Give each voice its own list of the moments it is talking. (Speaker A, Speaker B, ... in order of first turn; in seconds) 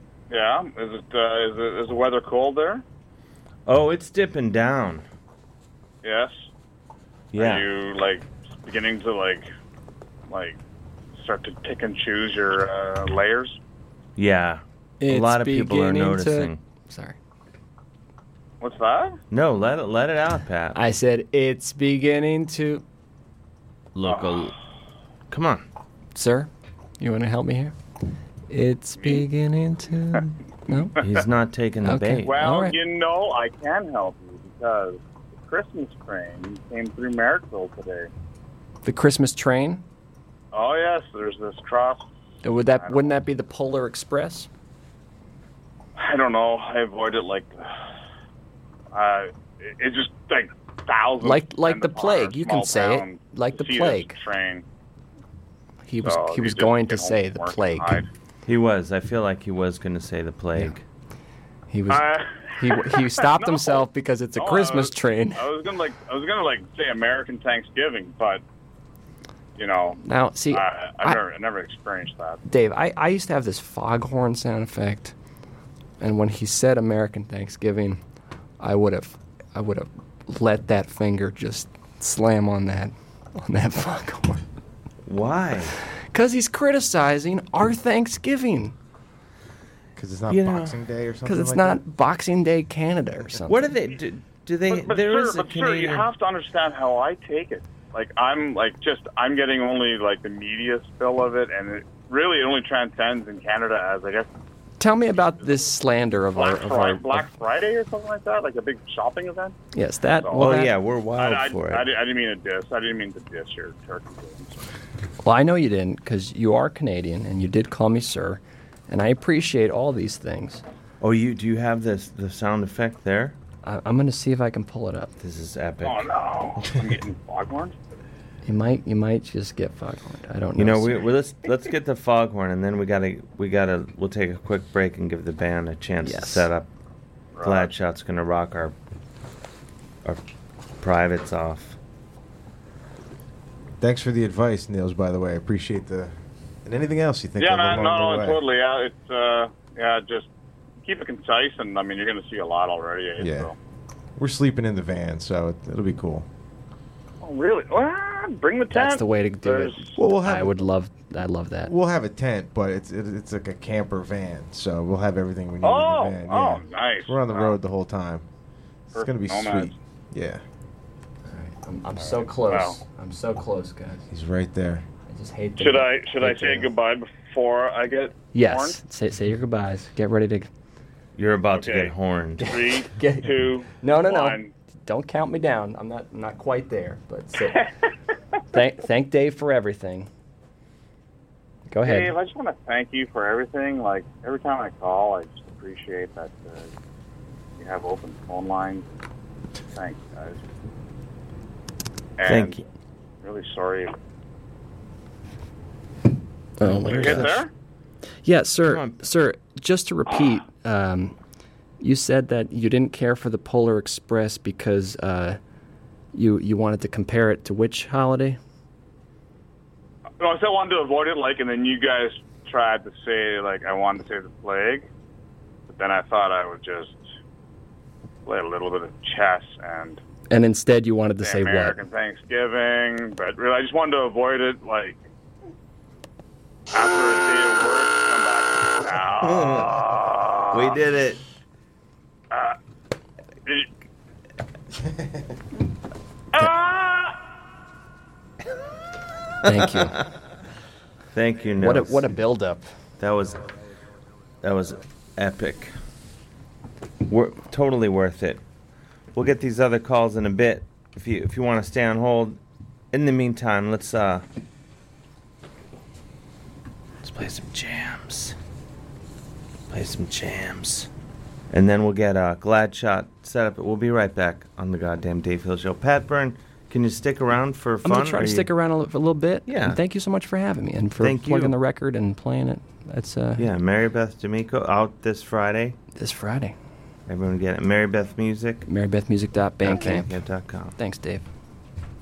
Speaker A: 0.3-2.8, 6.0-6.5, 7.3-9.5, 10.3-10.6, 11.2-13.6, 18.6-19.2, 24.1-24.5, 28.9-29.3, 32.2-38.1, 40.5-42.0, 42.8-43.1, 46.0-47.7, 48.9-54.6, 56.0-58.1, 61.9-68.4, 69.6-72.4, 94.7-104.3, 106.3-109.5, 110.2-110.5, 111.2-114.7, 125.8-127.7, 137.3-137.7, 147.4-150.3, 150.8-153.5, 157.2-159.9, 165.6-167.6, 168.9-169.7, 172.4-172.8, 175.6-178.8, 181.5-184.5, 191.8-196.7, 197.6-198.8, 199.7-200.4, 202.2-202.6, 203.2-203.9, 206.8-207.5, 220.2-224.9, 225.7-227.0, 228.2-230.0, 231.2-235.0, 236.7-240.8, 242.3-242.6, 246.3-247.2
Speaker B: 3.6-5.0, 7.3-7.7, 14.2-16.6, 19.3-20.8, 23.9-24.5, 25.3-25.6, 31.0-32.3, 58.5-60.8, 85.0-85.8, 90.3-90.8, 93.3-96.1, 110.3-111.9, 121.0-123.4, 125.2-126.1, 130.6-136.7, 137.4-138.7, 140.8-141.8, 181.2-182.6, 202.2-202.6, 206.6-207.4, 208.6-209.0, 240.5-241.2, 251.1-252.2, 253.0-253.4, 254.4-255.8, 257.1-258.4, 259.1-262.4, 262.9-264.2, 267.0-268.3, 269.7-270.9, 271.5-278.5, 279.4-279.8, 281.0-281.6, 283.4-285.8, 287.1-288.6, 289.6-290.8
Speaker C: 15.0-17.1, 20.7-22.8, 26.1-27.7, 28.5-30.9, 31.8-32.8, 38.8-39.8, 42.4-44.5, 51.2-54.1, 55.9-58.0, 61.7-62.1, 62.6-65.5, 70.0-71.2, 72.5-75.1, 76.0-78.0, 78.6-84.4, 86.1-88.7, 91.2-93.7, 104.8-107.3, 109.7-110.7, 115.2-120.6, 123.6-125.1, 128.4-131.1, 136.0-136.5, 158.7-161.7, 171.3-174.1, 175.1-176.7, 178.3-180.5, 182.4-187.6, 188.5-190.1, 191.7-192.1, 206.6-207.4, 208.2-211.2, 211.8-215.4, 216.1-218.4, 230.3-231.8, 249.4-250.0, 251.6-252.7, 277.8-283.5, 285.9-286.5, 288.6-290.2, 290.8-291.2
Speaker D: 90.0-91.8, 143.8-148.4, 153.2-153.5, 154.2-156.3, 159.9-160.7, 161.7-168.3, 168.9-170.4, 174.1-174.8